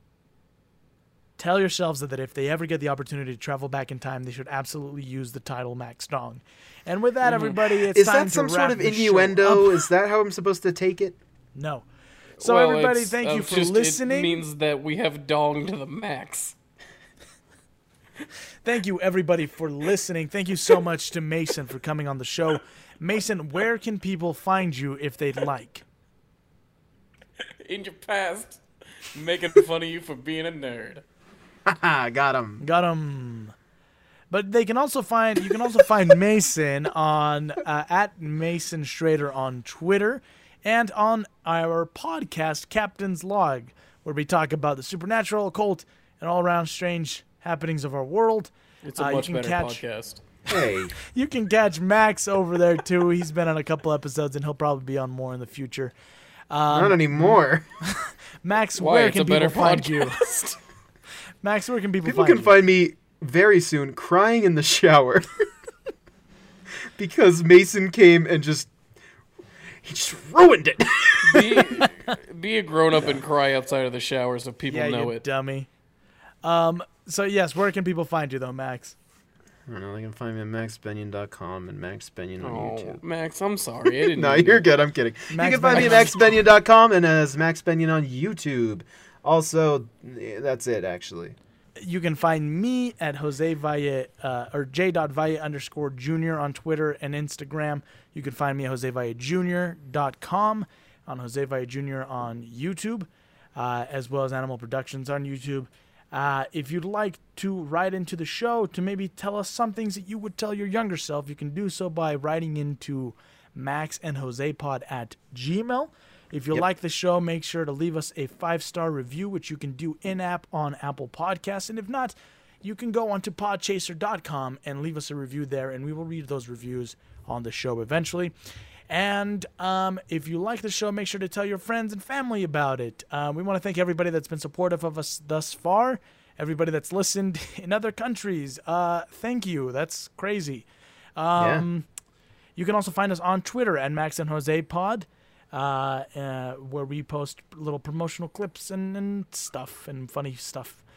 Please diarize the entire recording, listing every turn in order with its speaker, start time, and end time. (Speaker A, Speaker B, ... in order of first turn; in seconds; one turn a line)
Speaker A: 1.4-9.8
Speaker B: 7.2-7.6
Speaker C: 7.9-11.2
Speaker A: 11.6-11.9
Speaker B: 12.4-16.6
Speaker A: 12.4-14.4
Speaker A: 18.6-25.8
Speaker B: 27.6-28.6
Speaker B: 29.1-31.0
Speaker C: 31.7-32.6
Speaker A: 32.6-33.5
Speaker A: 34.3-49.8
Speaker B: 48.8-50.2
Speaker C: 50.5-51.0
Speaker A: 51.0-55.9
Speaker A: 56.5-60.2
Speaker C: 56.7-57.6
Speaker B: 58.8-60.6
Speaker A: 61.4-62.5
Speaker C: 62.0-65.5
Speaker C: 67.0-68.7
Speaker C: 69.8-71.6
Speaker B: 71.2-75.2
Speaker A: 71.6-71.9
Speaker A: 74.7-75.7
Speaker A: 76.4-79.0
Speaker C: 79.7-83.0
Speaker B: 82.4-84.7
Speaker C: 83.9-91.4
Speaker A: 85.3-86.2
Speaker A: 91.8-128.3
Speaker A: 128.9-141.9
Speaker C: 141.4-141.7
Speaker A: 142.6-150.8